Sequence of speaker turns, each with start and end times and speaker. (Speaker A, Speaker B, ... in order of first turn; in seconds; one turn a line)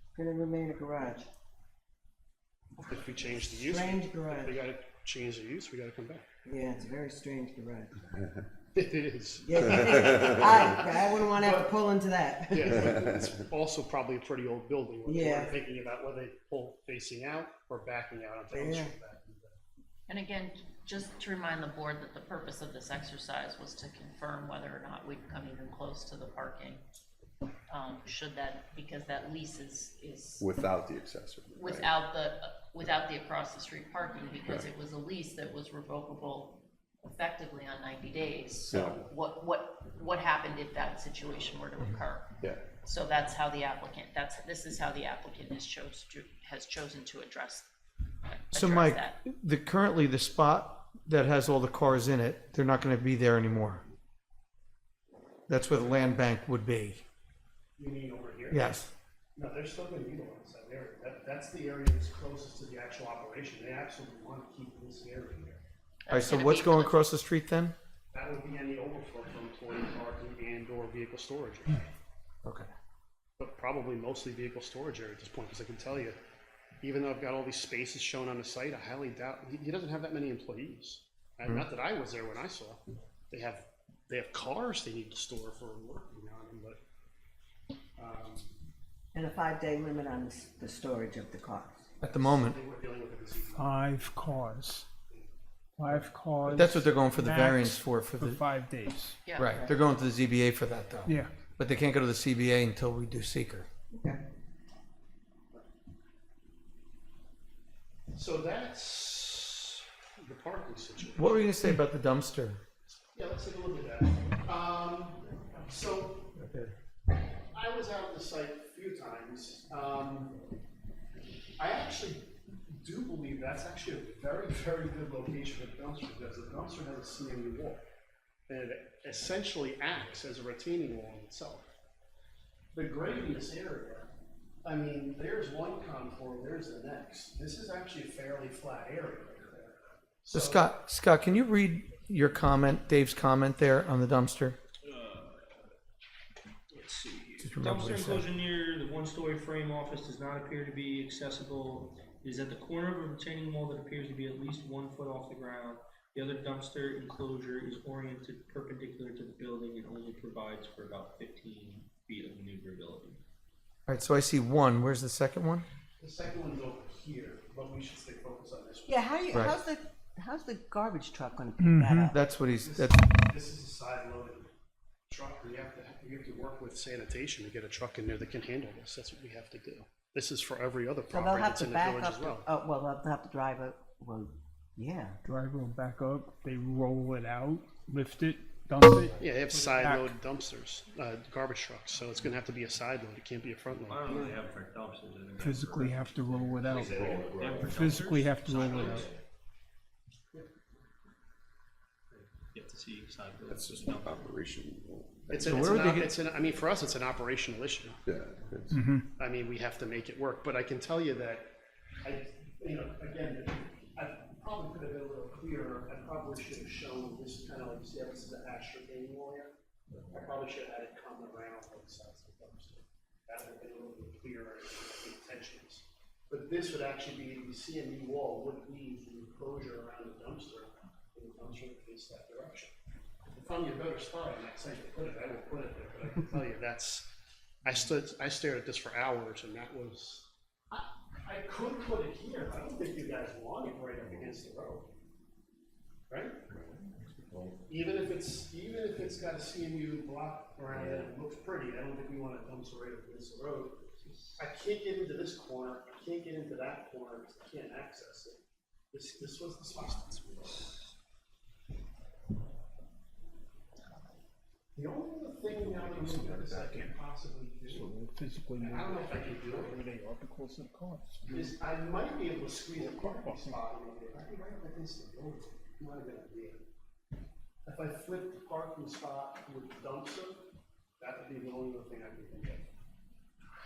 Speaker A: 0.1-1.3
Speaker B: 2.8-6.2
Speaker A: 3.6-4.6
Speaker A: 6.5-8.1
Speaker B: 8.7-11.8
Speaker A: 9.4-12.8
Speaker B: 12.5-19.6
Speaker A: 15.1-15.6
Speaker A: 18.5-18.9
Speaker C: 20.1-26.8
Speaker C: 27.7-30.5
Speaker D: 30.4-31.9
Speaker C: 31.5-47.7
Speaker D: 38.7-39.0
Speaker C: 48.2-49.2
Speaker E: 48.5-53.8
Speaker E: 55.5-57.0
Speaker B: 55.7-56.1
Speaker B: 57.8-58.8
Speaker E: 58.5-58.9
Speaker B: 59.4-65.6
Speaker C: 66.1-67.0
Speaker E: 66.1-67.7
Speaker B: 68.1-71.8
Speaker E: 72.4-72.7
Speaker B: 73.4-76.2
Speaker B: 76.8-86.8
Speaker B: 88.0-88.5
Speaker A: 89.1-91.8
Speaker E: 92.0-92.6
Speaker B: 92.0-93.8
Speaker F: 93.5-94.8
Speaker F: 95.8-99.2
Speaker E: 96.5-98.4
Speaker C: 99.2-99.5
Speaker E: 99.4-103.7
Speaker A: 99.4-99.7
Speaker F: 101.0-101.3
Speaker A: 103.9-104.2
Speaker B: 108.1-111.5
Speaker E: 111.2-112.6
Speaker B: 113.1-116.3
Speaker E: 116.3-116.7
Speaker B: 117.5-120.3
Speaker B: 121.6-127.8
Speaker B: 128.5-131.7
Speaker B: 132.7-134.1
Speaker B: 134.6-140.7
Speaker E: 140.3-144.6
Speaker G: 144.9-145.2
Speaker G: 146.7-163.2
Speaker E: 147.4-148.2
Speaker E: 163.9-165.7
Speaker B: 166.0-169.5
Speaker A: 168.9-172.2
Speaker E: 169.3-169.6
Speaker F: 171.6-172.1
Speaker E: 172.1-173.0
Speaker B: 172.6-174.5
Speaker B: 175.1-182.5
Speaker A: 181.1-185.2
Speaker F: 185.2-190.2
Speaker B: 189.2-194.2
Speaker G: 193.9-196.1
Speaker A: 194.1-194.4
Speaker F: 195.3-196.9
Speaker D: 196.6-198.1
Speaker G: 196.7-199.1
Speaker F: 197.6-199.1
Speaker G: 202.5-204.3
Speaker D: 203.5-205.7
Speaker B: 205.3-208.0
Speaker E: 205.4-206.1
Speaker D: 208.1-208.8
Speaker F: 208.7-209.0
Speaker B: 209.2-219.5
Speaker B: 220.1-232.7
Speaker B: 233.3-237.1
Speaker B: 237.6-244.9
Speaker B: 246.1-246.4
Speaker D: 246.5-247.5
Speaker B: 247.7-258.4
Speaker B: 258.9-260.7
Speaker B: 264.7-267.9
Speaker F: 267.7-271.5
Speaker B: 268.6-269.8
Speaker B: 271.3-276.6
Speaker F: 272.8-273.6
Speaker B: 277.6-280.4
Speaker B: 281.0-282.7